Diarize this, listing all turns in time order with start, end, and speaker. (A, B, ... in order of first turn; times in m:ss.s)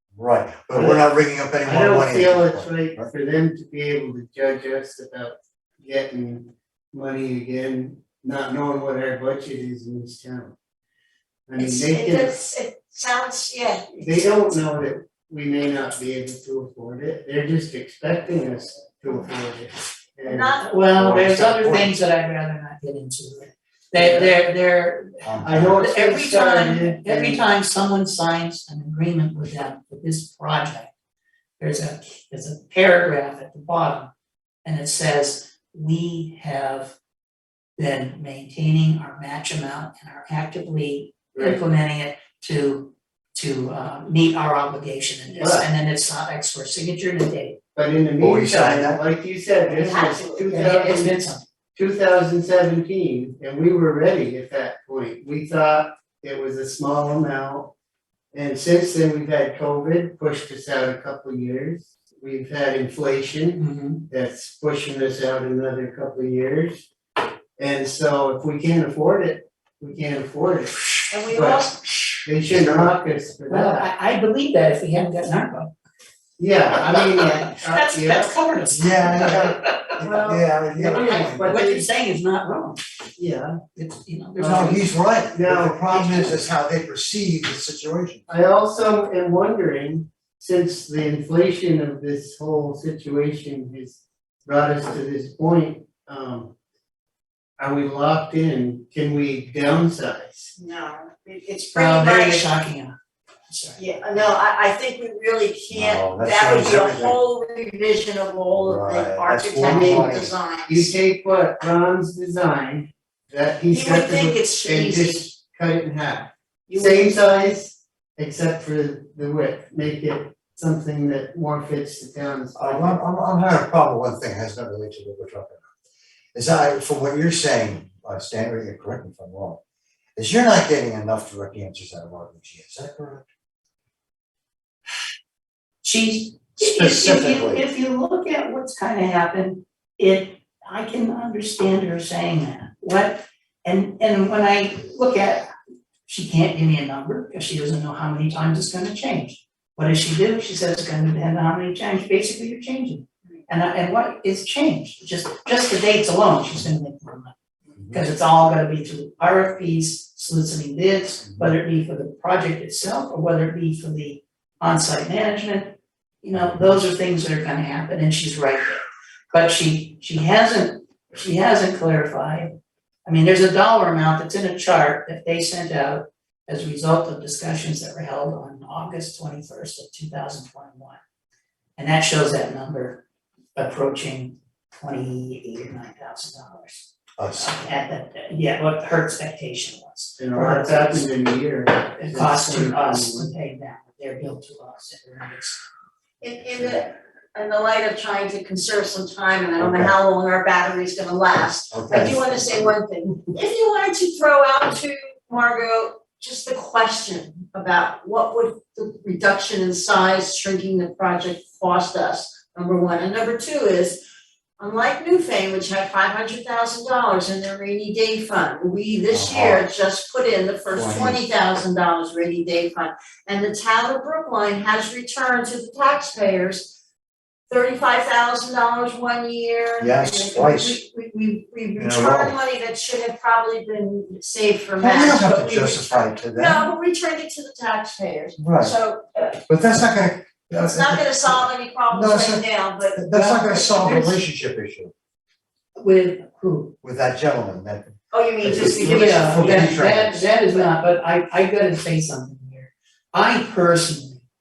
0:00.2-0:03.1 A
0:00.7-0:01.0 B
0:01.6-0:10.6 B
0:11.5-0:12.4 B
0:11.6-0:14.4 C
0:14.0-0:20.6 B
0:20.2-0:20.7 C
0:20.6-0:25.3 D
0:21.0-0:21.9 A
0:24.0-0:24.3 B
0:25.2-0:25.8 A
0:25.4-0:27.5 B
0:25.8-0:30.9 D
0:31.6-0:34.1 D
0:34.6-0:37.0 D
0:37.8-0:47.6 D
0:41.4-0:41.6 B
0:45.3-0:45.7 B
0:47.8-0:51.2 B
0:48.2-0:49.0 A
0:48.5-0:48.8 D
0:49.7-0:50.5 C
0:50.5-0:51.4 D
0:51.8-0:57.7 B
0:58.3-1:06.9 B
1:03.6-1:04.0 D
1:07.6-1:11.7 B
1:11.1-1:11.8 C
1:12.2-1:13.9 B
1:13.5-1:15.7 D
1:16.4-1:18.4 B
1:16.7-1:20.0 D
1:18.7-1:21.6 A
1:20.0-1:20.4 C
1:20.0-1:21.9 B
1:21.2-1:22.8 D
1:23.2-1:23.6 B
1:23.8-1:24.8 D
1:24.4-1:24.7 B
1:24.4-1:28.3 A
1:25.3-1:26.5 B
1:28.3-1:36.5 B
1:37.6-1:40.5 B
1:40.6-1:42.5 C
1:41.7-1:43.0 D
1:43.5-1:43.8 D
1:43.8-1:50.9 C
1:45.7-1:47.2 A
1:48.5-1:50.3 A
1:49.6-2:03.0 B
1:53.7-1:55.2 C
1:56.7-1:57.5 C
2:02.6-2:05.7 A
2:06.3-2:09.6 A
2:10.2-2:13.3 A
2:15.8-2:25.5 D
2:16.6-2:17.6 A
2:26.1-2:37.4 D
2:37.9-2:52.6 D
2:53.1-3:01.0 D
3:01.8-3:03.0 D
3:03.6-3:11.1 D
3:07.2-3:07.5 A
3:10.2-3:13.3 B
3:12.0-3:15.6 D
3:16.2-3:34.0 C
3:19.6-3:19.9 A
3:21.7-3:22.2 A
3:34.6-3:46.8 C
3:39.1-3:39.6 A
3:40.8-3:41.2 A
3:47.5-3:59.3 C
3:49.8-3:50.8 A
3:51.8-3:52.4 A
3:54.8-3:56.6 A
3:58.4-3:58.7 A
3:59.5-4:04.9 A
4:00.5-4:04.2 C
4:05.8-4:06.8 D
4:06.8-4:10.3 A
4:08.1-4:09.8 C
4:08.8-4:14.2 D